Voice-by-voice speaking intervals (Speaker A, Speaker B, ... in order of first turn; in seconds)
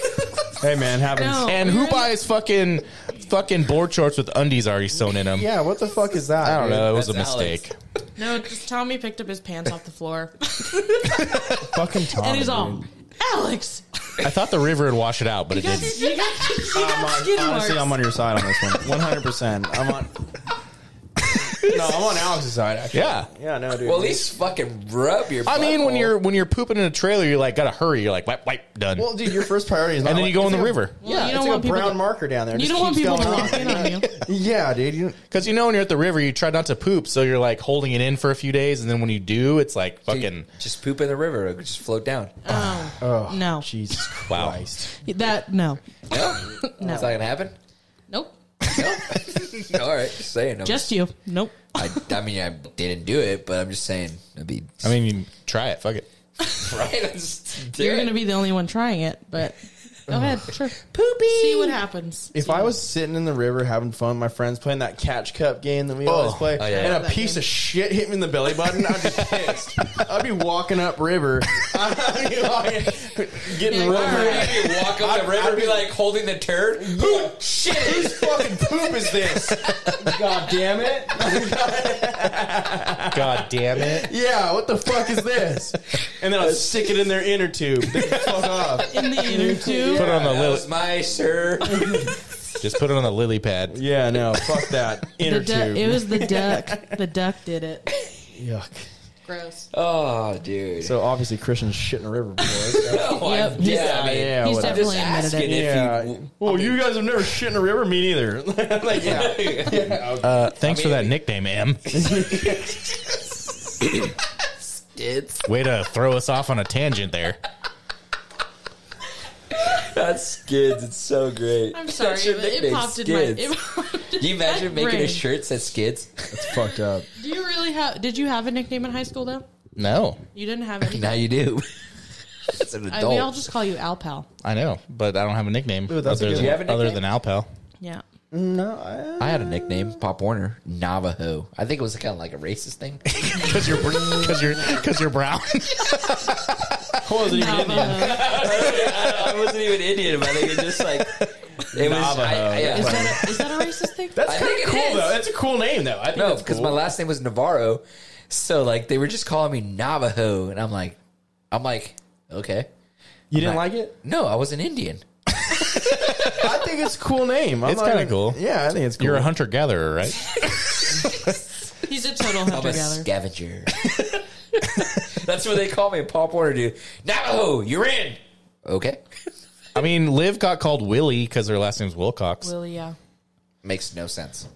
Speaker A: 0.6-1.6, 5.3-6.9, 11.5-12.8, 16.7-20.2, 21.5-24.2, 29.0-35.2, 42.5-45.0, 46.8-47.1, 60.1-60.4, 62.3-75.9, 76.8-90.4, 91.6-92.1, 93.7-96.9, 98.3-98.9, 100.8-110.4, 111.9-113.3, 126.3-127.1, 135.9-136.7, 138.3-140.0, 143.3-144.6, 147.0-149.5, 150.6-156.8, 163.3-163.9, 166.3-169.3
Speaker B: 1.1-2.1, 8.2-14.1, 15.5-18.0, 31.0-34.1, 42.4-43.7, 45.0-45.8, 46.4-47.1, 48.1-48.3, 50.6-52.0, 57.8-62.7, 66.6-67.4, 73.6-74.7, 88.9-90.2, 95.2-97.9, 99.2-99.7, 103.1-105.8, 121.7-125.2, 127.2-129.4, 130.3-131.3, 132.9-134.3, 147.2-148.4, 152.6-154.4, 171.7-173.1, 182.4-182.9
Speaker C: 1.4-5.5, 6.4-7.7, 14.2-16.0, 22.9-23.3, 25.4-29.5, 30.0-31.0, 35.3-40.5, 44.3-44.7, 54.8-56.1, 66.0-66.6, 83.1-84.1, 89.9-90.7, 92.6-93.8, 110.2-112.2, 115.4-117.4, 129.8-130.2, 134.4-137.5, 143.1-147.1, 167.6-168.4, 169.0-170.9, 179.7-182.5
Speaker D: 6.7-7.6, 23.8-26.1, 40.1-42.3, 46.1-47.5, 48.6-50.9, 51.8-55.0, 56.6-58.1, 66.6-67.0, 73.9-80.2, 86.3-87.1, 89.9-92.1, 99.7-101.0, 102.7-106.9, 108.9-111.2, 112.0-112.8, 113.8-115.5, 119.5-123.5, 124.2-126.5, 130.8-131.7, 132.5-133.3, 136.1-137.0, 139.2-143.2, 147.9-153.2, 154.2-155.2, 156.1-161.0, 161.5-162.7, 163.3-165.0, 165.9-166.4, 172.5-174.0, 174.6-179.0, 183.6-184.5